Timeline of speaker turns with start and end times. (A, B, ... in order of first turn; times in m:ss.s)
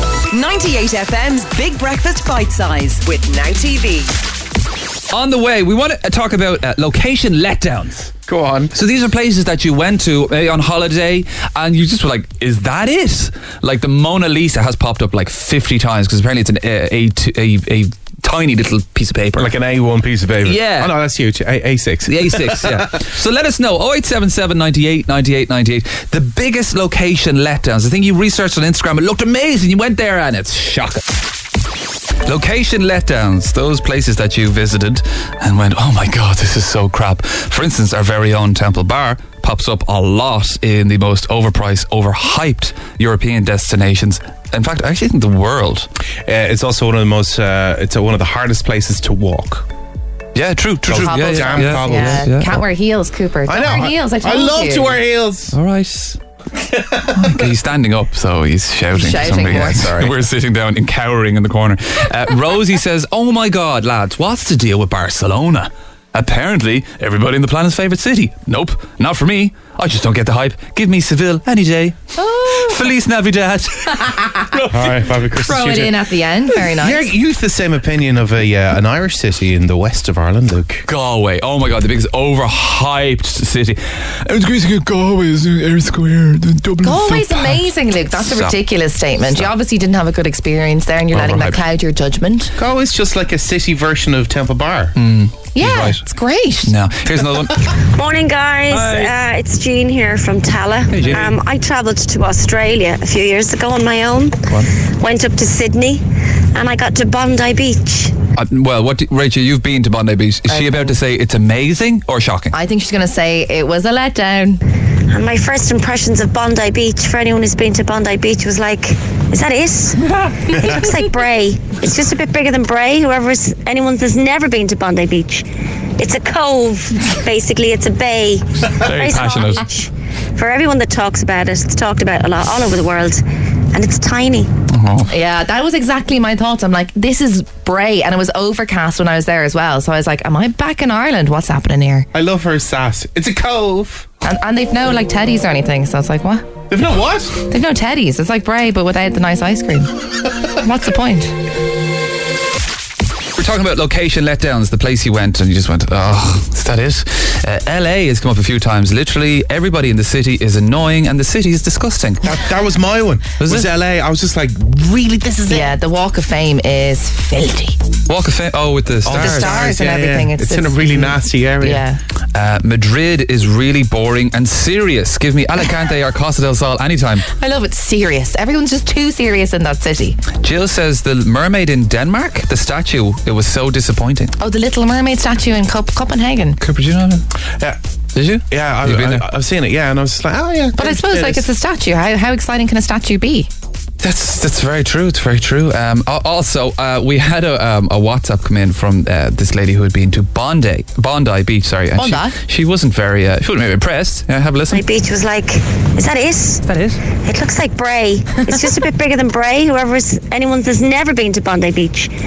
0:00.3-0:04.1 A
0:05.1-0:19.5 B
0:08.3-0:08.7 C
0:19.4-0:22.9 C
0:20.4-0:21.0 B
0:22.0-0:31.0 B
0:32.2-0:45.9 B
0:46.2-0:49.6 C
0:50.3-0:52.6 B
0:50.9-0:52.3 C
0:50.9-0:55.0 D
0:53.4-0:55.6 C
0:55.5-0:56.2 B
0:57.1-1:15.1 B
0:58.9-1:00.2 D
1:12.2-1:12.8 D
1:14.1-1:14.4 D
1:14.7-1:16.0 C
1:15.3-1:17.1 D
1:16.5-1:20.8 C
1:20.9-1:27.6 B
1:26.8-1:32.5 D
1:28.2-1:28.6 B
1:29.2-1:29.5 B
1:31.1-1:31.6 B
1:32.6-1:34.9 C
1:35.0-1:36.0 B
1:35.5-1:36.7 D
1:36.6-1:37.7 B
1:37.7-1:46.0 E
1:38.7-1:39.1 B
1:40.9-1:41.4 B
1:44.5-1:44.8 B
1:46.5-1:48.2 E
1:48.4-1:52.5 B
1:50.5-1:50.9 D
1:52.5-1:54.6 D
1:55.1-2:05.4 E
2:06.0-2:14.5 E
2:08.6-2:09.6 B
2:14.7-2:15.1 B
2:15.1-2:22.1 D
2:22.1-2:24.0 C
2:24.2-2:26.4 D
2:26.7-2:27.4 C
2:27.5-2:29.9 D
2:30.5-2:31.3 D
2:33.4-2:42.3 B
2:42.2-2:45.8 C
2:43.4-2:43.7 B
2:45.5-2:47.8 D
2:48.1-2:49.7 B
2:49.0-2:51.9 C
2:49.1-2:52.0 D
2:52.3-2:57.3 B
2:57.3-3:00.2 D
3:00.4-3:04.3 B
3:04.4-3:06.6 D
3:06.6-3:07.2 B
3:08.1-3:09.3 B
3:08.5-3:11.5 C
3:10.8-3:13.5 D
3:14.0-3:24.8 B
3:22.0-3:22.4 D
3:24.7-3:32.1 E